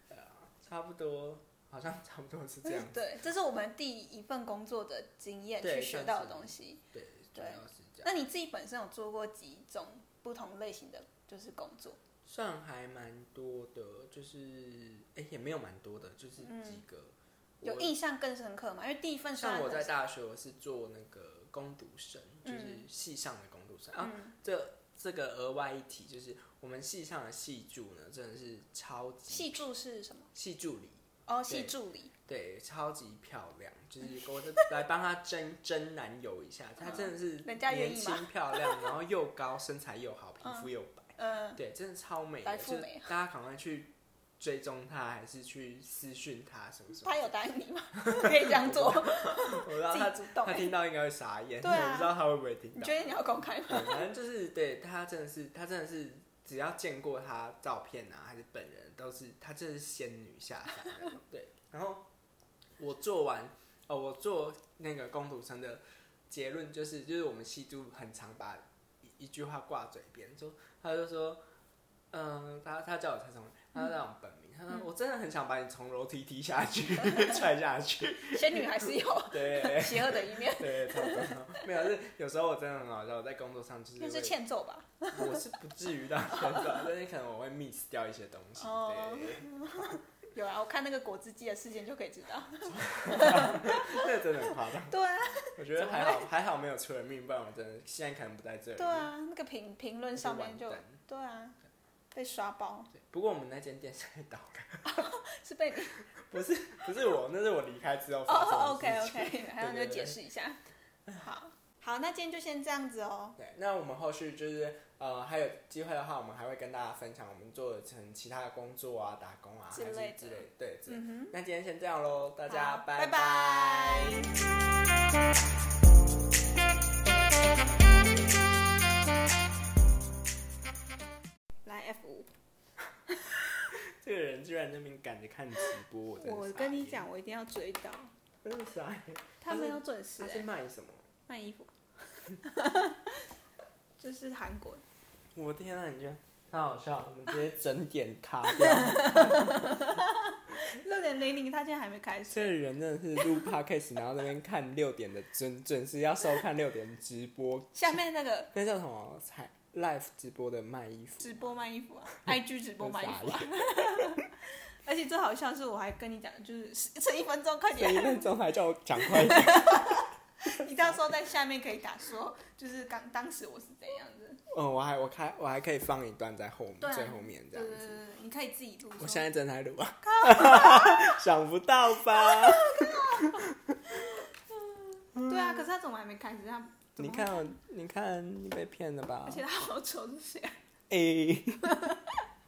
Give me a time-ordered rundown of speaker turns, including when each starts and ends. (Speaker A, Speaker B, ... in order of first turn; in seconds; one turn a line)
Speaker A: 0.1-3.2
Speaker B: 2.6-6.8
Speaker A: 5.6-8.1
Speaker B: 7.3-12.0
Speaker A: 12.2-17.9
Speaker B: 16.4-16.8
Speaker B: 17.6-19.9
Speaker A: 19.4-29.6
Speaker B: 22.4-22.9
Speaker B: 24.0-24.4
Speaker B: 29.3-30.3
Speaker A: 30.3-31.7
Speaker B: 31.3-32.1
Speaker A: 32.3-47.3
Speaker B: 34.1-34.6
Speaker B: 36.8-38.9
Speaker B: 40.4-41.6
Speaker B: 42.4-43.1
Speaker B: 47.0-50.7
Speaker A: 48.4-62.1
Speaker B: 51.6-52.1
Speaker B: 52.8-54.1
Speaker A: 62.8-71.4
Speaker A: 72.1-84.4
Speaker B: 78.2-81.6
Speaker B: 84.0-85.4
Speaker A: 85.1-90.0
Speaker B: 86.3-86.9
Speaker B: 88.6-94.2
Speaker A: 92.7-95.0
Speaker B: 94.8-96.3
Speaker A: 95.6-99.1
Speaker B: 98.8-101.6
Speaker A: 100.2-101.0
Speaker B: 102.1-102.9
Speaker A: 102.9-104.9
Speaker B: 104.8-106.0
Speaker A: 106.2-110.2
Speaker B: 108.3-110.6
Speaker B: 111.2-113.4
Speaker A: 113.4-124.4
Speaker B: 119.7-121.4
Speaker B: 122.5-124.3
Speaker B: 131.6-132.3
Speaker A: 134.0-137.1
Speaker B: 136.2-138.1
Speaker A: 138.4-141.1
Speaker B: 139.4-140.5
Speaker B: 141.3-141.7
Speaker B: 142.3-143.1
Speaker B: 144.0-144.8
Speaker A: 145.3-149.6
Speaker B: 148.6-152.6
Speaker A: 152.3-158.0
Speaker B: 157.8-158.5
Speaker A: 158.5-161.5
Speaker B: 161.2-164.3
Speaker A: 162.3-164.2
Speaker B: 164.8-168.3
Speaker A: 167.8-170.0
Speaker B: 169.0-174.4
Speaker A: 174.5-178.0
Speaker B: 176.8-179.3
Speaker A: 179.0-183.8
Speaker B: 180.1-181.2
Speaker B: 182.1-187.5
Speaker A: 185.2-185.7
Speaker A: 187.0-189.4
Speaker B: 189.2-190.6
Speaker A: 190.9-191.7
Speaker B: 191.6-192.1